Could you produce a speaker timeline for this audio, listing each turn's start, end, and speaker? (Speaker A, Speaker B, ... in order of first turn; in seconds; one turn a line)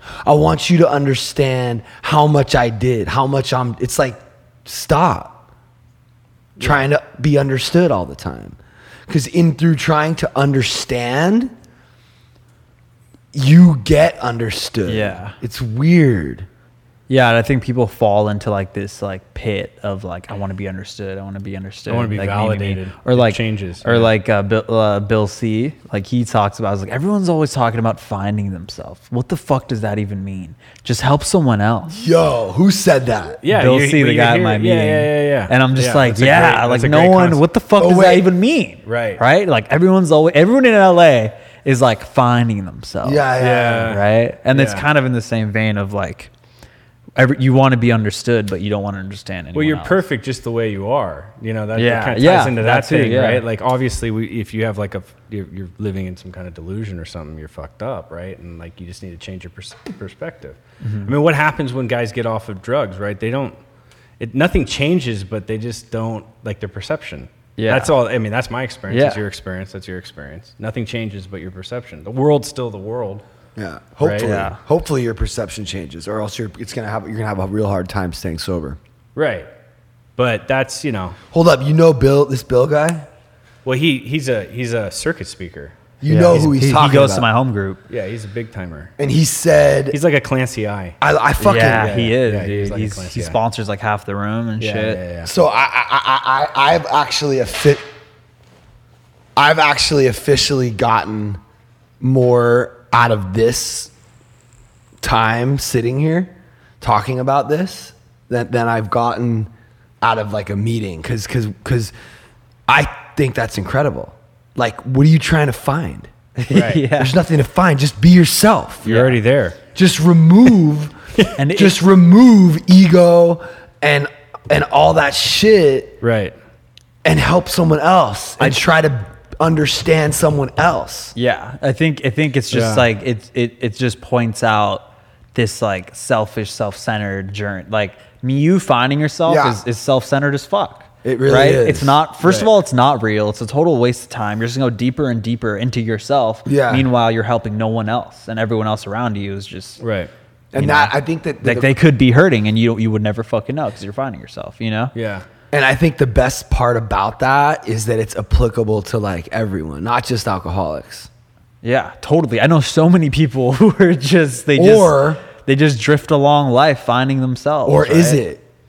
Speaker A: 0.2-5.4
Speaker A: 6.6-11.5
Speaker A: 13.3-16.5
Speaker B: 14.9-15.3
Speaker B: 17.1-31.9
Speaker C: 21.9-24.1
Speaker A: 31.9-33.4
Speaker C: 33.4-37.4
Speaker B: 33.5-43.3
Speaker A: 37.8-38.3
Speaker C: 38.8-39.2
Speaker A: 43.0-44.0
Speaker C: 43.4-44.9
Speaker B: 43.9-46.3
Speaker B: 47.2-50.0
Speaker C: 49.5-63.5
Speaker B: 51.8-53.4
Speaker B: 60.8-61.1
Speaker C: 64.2-73.2
Speaker B: 67.6-67.9
Speaker B: 68.9-69.2
Speaker A: 73.5-78.8
Speaker C: 74.0-74.3
Speaker B: 74.2-74.6
Speaker C: 79.1-79.5
Speaker C: 80.2-81.2
Speaker A: 81.3-83.1
Speaker C: 83.6-85.8
Speaker A: 86.0-87.3
Speaker B: 86.1-87.8
Speaker C: 87.9-88.9
Speaker A: 89.0-90.0
Speaker C: 89.9-91.0
Speaker A: 91.0-92.1
Speaker B: 91.4-95.0
Speaker C: 91.7-93.4
Speaker C: 94.6-95.3
Speaker A: 95.2-97.8
Speaker A: 99.3-101.4
Speaker A: 102.0-103.9
Speaker A: 105.0-111.9
Speaker A: 112.7-118.9
Speaker B: 116.4-117.1
Speaker C: 116.5-116.8
Speaker B: 118.8-119.2
Speaker C: 118.8-119.6
Speaker A: 119.7-121.0
Speaker B: 121.3-121.8
Speaker A: 121.5-126.0
Speaker C: 126.0-126.3
Speaker A: 127.0-131.1
Speaker B: 131.1-149.8
Speaker C: 132.5-132.9
Speaker A: 139.3-139.6
Speaker A: 141.0-142.0
Speaker C: 142.2-142.5
Speaker A: 146.4-146.9
Speaker C: 149.8-150.1
Speaker A: 150.5-151.7
Speaker B: 150.6-154.9
Speaker C: 154.9-155.2
Speaker A: 155.5-161.1
Speaker B: 161.6-168.2
Speaker A: 164.6-165.2
Speaker A: 167.6-168.4